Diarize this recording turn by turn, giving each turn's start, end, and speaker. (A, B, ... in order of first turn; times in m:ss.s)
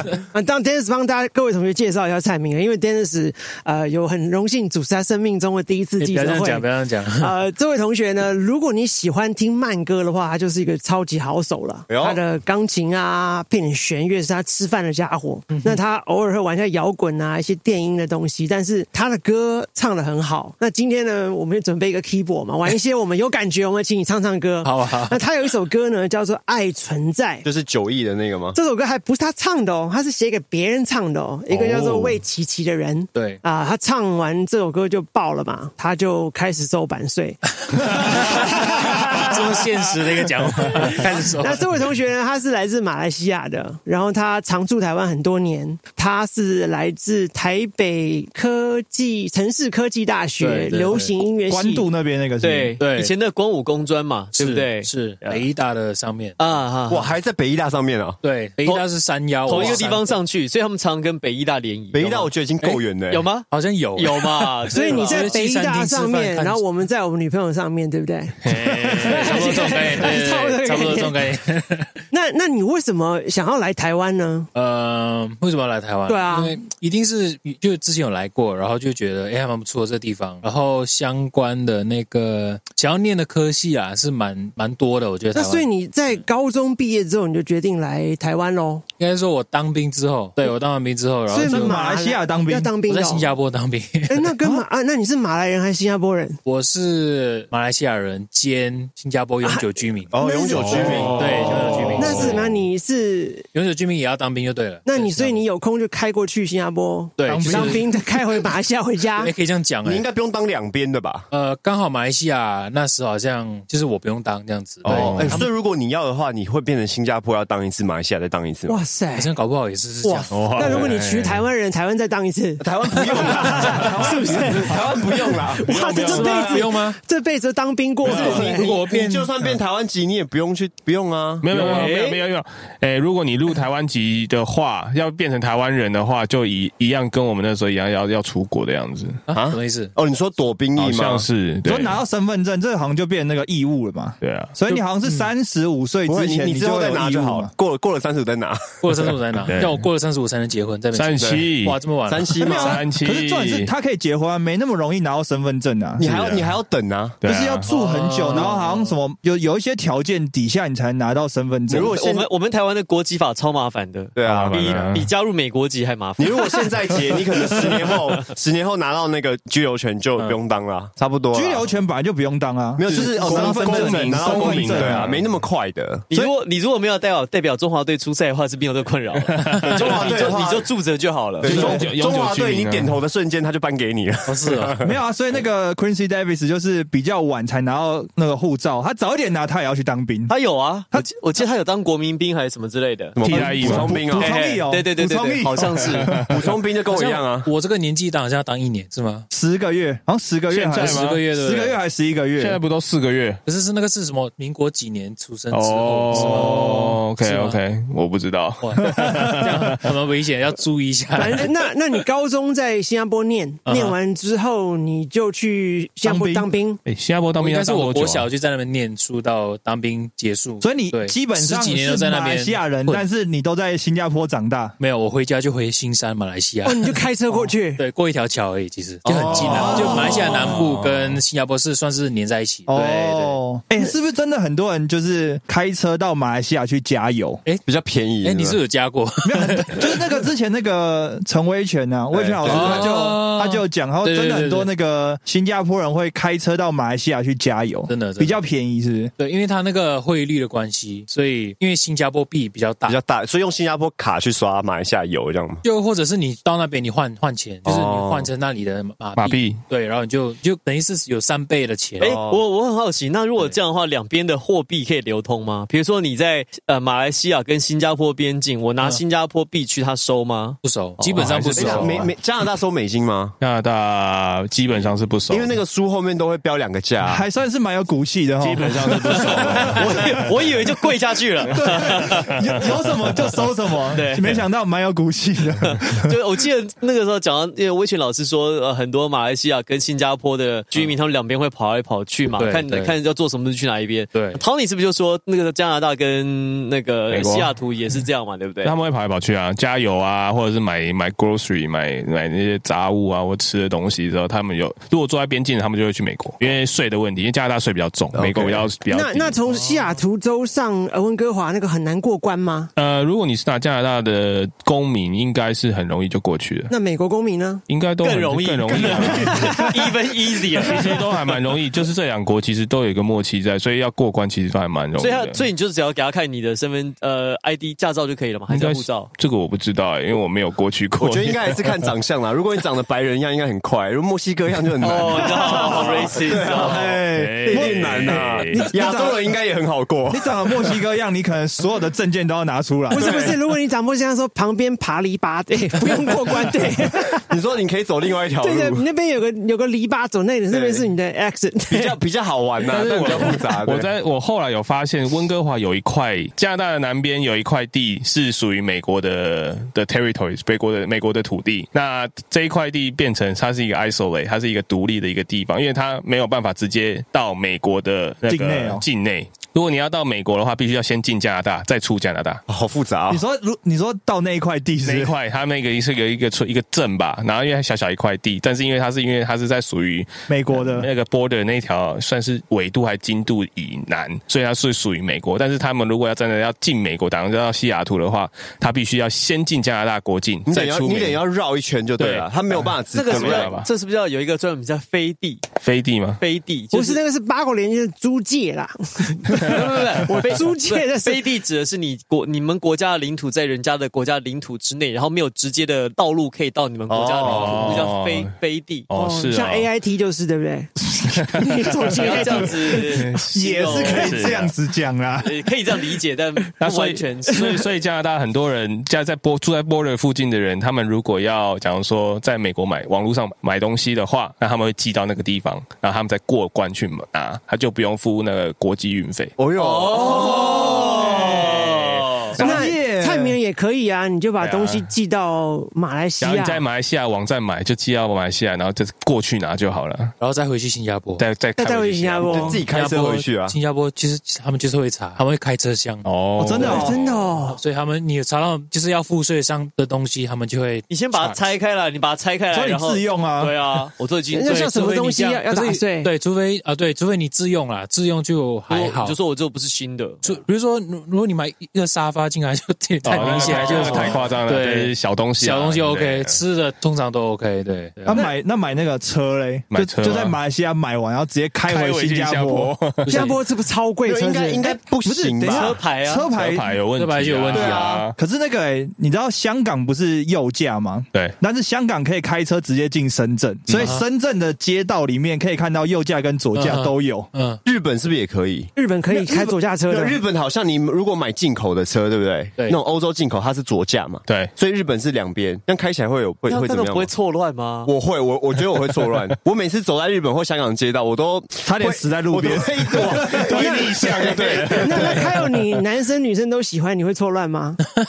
0:00.3-0:27.5 A
0:06.0-0:07.3 B
0:11.9-0:12.2 C
0:15.5-0:15.8 B
0:24.6-0:25.2 B
0:27.4-0:28.6 C
0:28.5-0:39.6 A
0:31.5-0:32.2 C
0:33.1-0:33.4 B
0:37.7-0:41.7 B
0:40.7-0:51.9 A
0:50.4-0:51.2 B
0:51.5-0:52.8 D
0:52.4-0:55.4 E
0:52.8-0:53.1 B
0:54.4-0:56.6 B
0:56.4-0:57.1 E
0:56.9-0:58.2 C
0:58.2-1:00.1 B
0:59.5-1:02.3 E
1:01.9-1:03.2 C
1:03.1-1:05.4 E
1:03.5-1:06.6 B
1:04.7-1:11.3 A
1:08.4-1:11.9 B
1:08.6-1:09.1 F
1:12.1-1:14.5 A
1:14.6-1:25.7 B
1:16.1-1:16.6 A
1:25.3-1:28.8 A
1:29.0-1:31.8 B
1:31.3-1:33.3 A
1:31.4-1:32.7 D
1:32.9-1:34.3 B
1:34.1-1:36.4 A
1:36.4-1:40.2 B
1:39.4-1:41.1 A
1:40.1-1:41.7 C
1:40.5-1:42.4 F
1:40.7-1:42.4 B
1:42.0-1:43.5 A
1:43.5-1:45.4 B
1:44.9-1:49.3 A
1:47.2-1:47.8 B
1:47.3-1:48.0 D
1:49.2-1:50.1 B
1:49.8-1:51.3 C
1:51.3-1:55.4 B
1:54.8-1:55.4 F
1:54.9-1:58.8 C
1:58.7-1:59.3 A
1:59.1-2:00.9 B
2:00.0-2:08.7 A
2:00.3-2:01.4 F
2:02.6-2:06.2 C
2:04.0-2:04.7 D
2:05.7-2:06.7 F
2:06.0-2:07.0 B
2:08.0-2:09.5 B
2:08.1-2:12.0 C
2:11.4-2:19.2 F
2:11.5-2:11.9 B
2:11.5-2:12.2 E
2:19.3-2:19.9 B
2:19.3-2:21.3 C
2:20.8-2:22.0 F
2:21.6-2:27.5 D
2:24.2-2:24.6 F
2:24.7-2:25.3 B
2:26.1-2:28.9 C
2:28.8-2:32.3 B
2:29.4-2:29.9 F
2:30.9-2:33.7 F
2:31.2-2:31.5 C
2:32.0-2:32.8 C
2:32.4-2:36.0 D
2:36.0-2:37.2 C
2:36.0-2:36.6 F
2:37.2-2:37.7 F
2:37.2-2:42.0 D
2:37.7-2:39.0 B
2:41.7-2:42.3 C
2:41.8-2:48.0 E
2:44.2-2:44.8 C
2:44.2-2:45.1 F
2:46.2-2:51.6 C
2:51.3-2:55.1 D
2:52.8-2:56.0 C
2:52.9-2:55.2 F
2:56.1-3:01.5 E
2:59.4-2:59.8 F
2:59.7-3:00.7 C
3:01.4-3:04.9 C
3:01.4-3:03.0 F
3:01.4-3:01.9 D
3:04.3-3:04.7 B
3:04.8-3:10.3 D
3:10.3-3:16.2 E
3:13.2-3:14.3 C
3:13.2-3:14.2 F
3:13.5-3:16.2 D
3:15.6-3:16.3 F
3:16.3-3:17.5 C
3:16.9-3:19.3 B
3:19.3-3:22.6 D
3:20.5-3:21.2 F
3:20.7-3:21.8 B
3:22.4-3:23.4 F
3:23.5-3:27.6 B
3:25.5-3:29.8 F
3:28.6-3:31.5 B
3:28.9-3:29.4 D
3:31.2-3:36.8 A
3:33.7-3:34.0 B
3:36.0-3:36.5 D
3:36.8-3:38.3 F
3:37.4-3:43.1 B
3:40.6-3:44.8 D
3:44.8-3:53.4 B
3:46.6-3:47.8 A
3:49.1-3:49.7 C
3:49.3-3:50.5 D
3:49.6-3:51.2 F
3:52.7-3:57.4 D
3:57.6-3:58.6 C
3:58.2-3:59.9 B
3:59.2-4:09.1 D
4:02.1-4:03.0 C
4:02.4-4:04.7 B
4:07.9-4:08.5 B
4:09.2-4:13.0 B
4:12.9-4:15.6 C
4:15.6-4:22.2 B
4:17.7-4:18.3 C
4:19.2-4:19.6 F
4:22.0-4:22.4 C
4:22.0-4:30.6 E
4:30.6-4:32.0 B
4:31.1-4:32.1 F
4:31.5-4:33.4 C
4:33.4-4:35.6 F
4:35.3-4:37.2 C
4:37.1-4:40.0 D
4:38.4-4:40.3 F
4:38.9-4:42.4 E
4:41.5-4:46.1 D
4:43.9-4:44.4 E
4:45.7-4:58.7 E
4:52.4-4:53.0 B
4:54.1-4:54.4 B
4:57.1-4:57.5 F
4:58.6-5:09.4 F
5:08.1-5:08.7 C
5:08.9-5:12.7 A
5:09.5-5:09.9 B
5:12.8-5:16.7 F
5:16.7-5:17.6 A
5:17.7-5:19.7 F
5:18.0-5:21.4 E
5:18.8-5:19.7 A
5:20.6-5:25.5 F
5:25.0-5:29.1 E
5:28.5-5:31.8 F
5:31.0-5:40.4 C
5:34.8-5:37.0 E
5:35.2-5:36.1 A
5:36.6-5:38.2 D
5:36.7-5:38.7 F
5:38.5-5:39.2 A
5:40.1-5:43.2 D
5:42.9-5:47.3 A
5:43.0-5:43.4 C
5:47.2-5:48.8 C
5:48.4-5:52.0 A
5:50.5-5:50.9 C
5:51.7-5:53.9 C
5:52.6-6:12.4 F
6:08.3-6:08.8 D
6:12.5-6:13.2 C
6:13.1-6:15.1 D
6:14.8-6:31.2 F
6:20.3-6:20.9 D
6:30.5-6:33.6 C
6:32.0-6:33.7 F
6:32.9-6:35.4 E
6:35.6-6:36.2 F
6:36.2-6:37.0 E
6:36.7-6:41.3 A
6:39.4-6:48.9 E
6:46.9-6:47.8 C
6:47.2-6:48.3 F
6:48.9-6:49.7 F
6:48.9-6:50.7 A
6:51.2-6:52.3 F
6:51.3-6:52.8 A
6:51.9-6:54.2 E
6:53.0-6:54.5 F
6:53.2-6:55.4 D
6:55.2-6:57.7 E
6:56.6-7:09.4 F
7:09.4-7:11.7 C
7:09.6-7:12.4 E
7:10.4-7:11.1 D
7:12.4-7:13.4 D
7:12.4-7:16.6 A
7:12.4-7:12.7 F
7:14.4-7:14.9 F
7:16.2-7:20.1 F
7:20.2-7:21.2 B
7:21.2-7:22.6 F
7:21.6-7:22.6 A
7:22.2-7:23.6 C
7:22.7-7:26.8 B
7:26.0-7:27.3 F
7:26.4-7:27.0 D
7:26.6-7:27.6 A
7:27.5-7:31.4 B
7:30.9-7:35.0 E
7:32.5-7:33.6 D
7:34.3-7:36.1 A
7:34.5-7:39.2 B
7:38.7-7:40.4 E
7:40.2-7:48.2 B
7:43.0-7:46.4 F
7:43.2-7:44.3 E
7:48.1-7:52.8 D
7:49.7-7:50.4 F
7:51.7-7:53.4 F
7:53.0-7:53.4 B
7:53.1-7:54.8 A
7:54.0-7:55.8 C
7:55.0-7:56.8 D
7:55.5-7:56.3 E
7:56.3-7:58.1 F
7:57.0-7:58.0 B
7:57.5-7:58.1 C
7:58.2-8:07.3 D
8:03.7-8:04.0 F
8:06.6-8:07.6 B
8:07.6-8:08.7 C
8:08.8-8:10.2 A
8:09.1-8:09.5 D
8:09.9-8:17.1 C
8:14.3-8:14.5 F
8:16.5-8:17.9 E
8:17.9-8:25.3 C
8:21.6-8:23.5 D
8:23.3-8:25.3 F
8:23.5-8:23.9 A
8:24.7-8:27.8 A